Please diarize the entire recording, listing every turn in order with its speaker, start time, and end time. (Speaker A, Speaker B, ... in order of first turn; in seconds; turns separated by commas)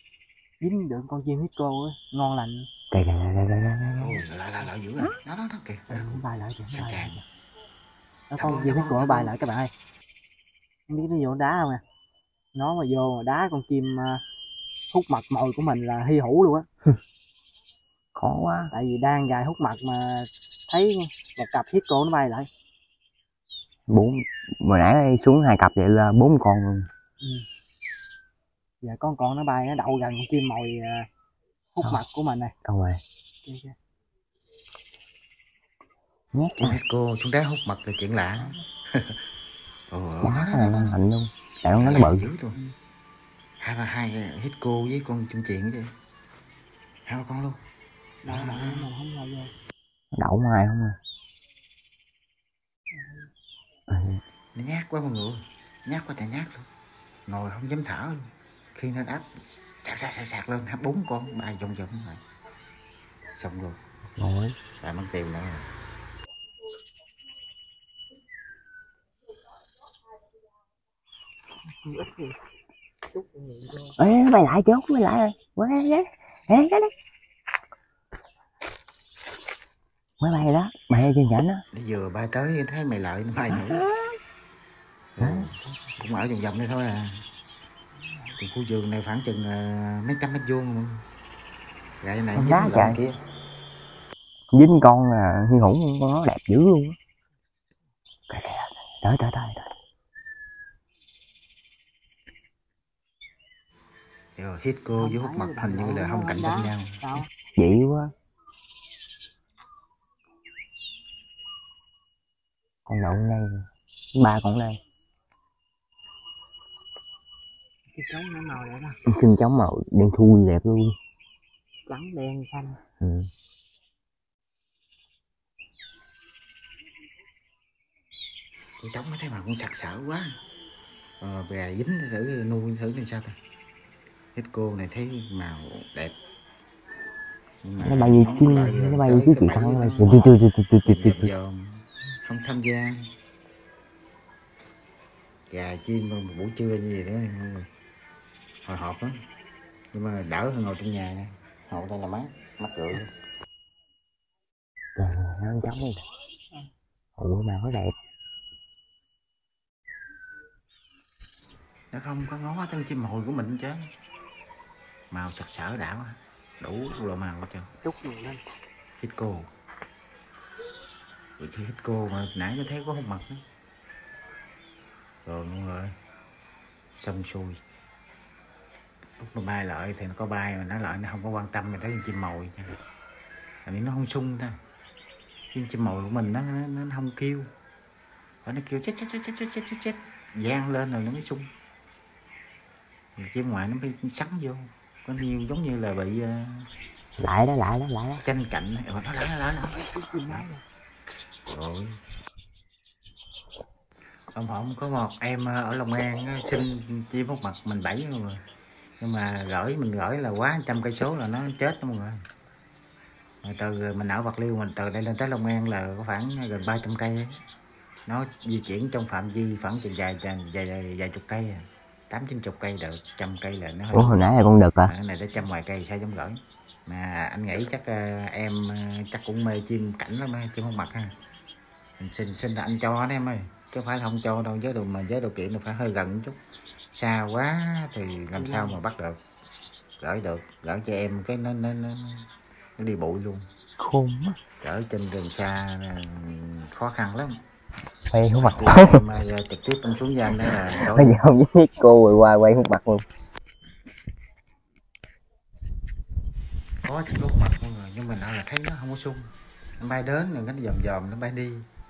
Speaker A: 0.6-2.7, Speaker B: 2.9-4.2, Speaker C: 4.0-7.2, Speaker A: 5.9-7.2, Speaker A: 8.3-9.7, Speaker C: 8.4-9.3, Speaker A: 10.9-11.8, Speaker A: 12.5-14.2, Speaker A: 14.9-16.7, Speaker B: 18.1-18.7, Speaker A: 18.7-22.5, Speaker B: 23.9-26.9, Speaker A: 27.2-27.5, Speaker A: 28.8-31.1, Speaker A: 31.8-32.5, Speaker B: 32.6-33.0, Speaker A: 33.5-33.7, Speaker B: 36.3-36.8, Speaker C: 36.6-39.2, Speaker C: 39.9-41.0, Speaker B: 40.2-42.3, Speaker C: 41.8-42.6, Speaker C: 43.6-45.9, Speaker C: 47.1-47.6, Speaker A: 48.2-49.5, Speaker C: 48.3-48.9, Speaker B: 50.1-51.0, Speaker A: 53.0-53.2, Speaker B: 53.9-54.2, Speaker C: 54.5-56.7, Speaker C: 57.3-62.2, Speaker C: 63.3-63.8, Speaker B: 64.2-64.6, Speaker C: 64.8-65.7, Speaker A: 71.7-72.4, Speaker A: 73.1-74.0, Speaker B: 74.0-76.9, Speaker B: 80.2-81.6, Speaker C: 81.7-83.9, Speaker B: 83.5-84.2, Speaker C: 85.2-87.3, Speaker B: 85.2-85.5, Speaker C: 88.4-91.0, Speaker C: 92.0-93.2, Speaker B: 92.3-93.0, Speaker B: 94.5-97.0, Speaker B: 98.3-99.7, Speaker C: 104.4-107.0, Speaker A: 105.0-107.3, Speaker B: 107.6-108.1, Speaker B: 112.9-114.8, Speaker A: 117.9-119.0, Speaker B: 119.1-121.0, Speaker A: 121.9-122.8, Speaker B: 123.0-123.3, Speaker C: 128.8-130.3, Speaker C: 131.2-133.4, Speaker C: 134.3-136.2, Speaker C: 137.6-143.1, Speaker B: 137.8-141.3, Speaker C: 145.5-147.7, Speaker C: 148.7-149.2, Speaker C: 149.9-153.1, Speaker B: 155.0-156.0, Speaker B: 157.2-157.9, Speaker C: 161.9-163.9, Speaker C: 165.1-167.7, Speaker A: 167.8-168.4, Speaker C: 169.0-169.5, Speaker C: 171.4-173.4, Speaker C: 175.2-175.9, Speaker C: 176.9-177.6, Speaker C: 179.2-182.7, Speaker C: 183.7-184.6, Speaker C: 185.5-187.5, Speaker C: 188.4-191.5, Speaker C: 193.2-196.7, Speaker B: 197.2-198.2, Speaker C: 198.2-200.5, Speaker A: 199.7-200.6, Speaker C: 201.5-202.0, Speaker C: 204.3-208.4, Speaker C: 209.0-212.2, Speaker C: 213.4-217.3, Speaker C: 218.1-231.1, Speaker B: 223.9-224.9, Speaker C: 232.0-236.4, Speaker C: 236.9-239.2, Speaker A: 238.3-238.8, Speaker C: 240.0-243.5, Speaker B: 243.8-244.4, Speaker C: 244.6-247.4, Speaker B: 248.1-249.0, Speaker C: 248.4-251.2, Speaker B: 250.5-253.1, Speaker C: 256.8-261.6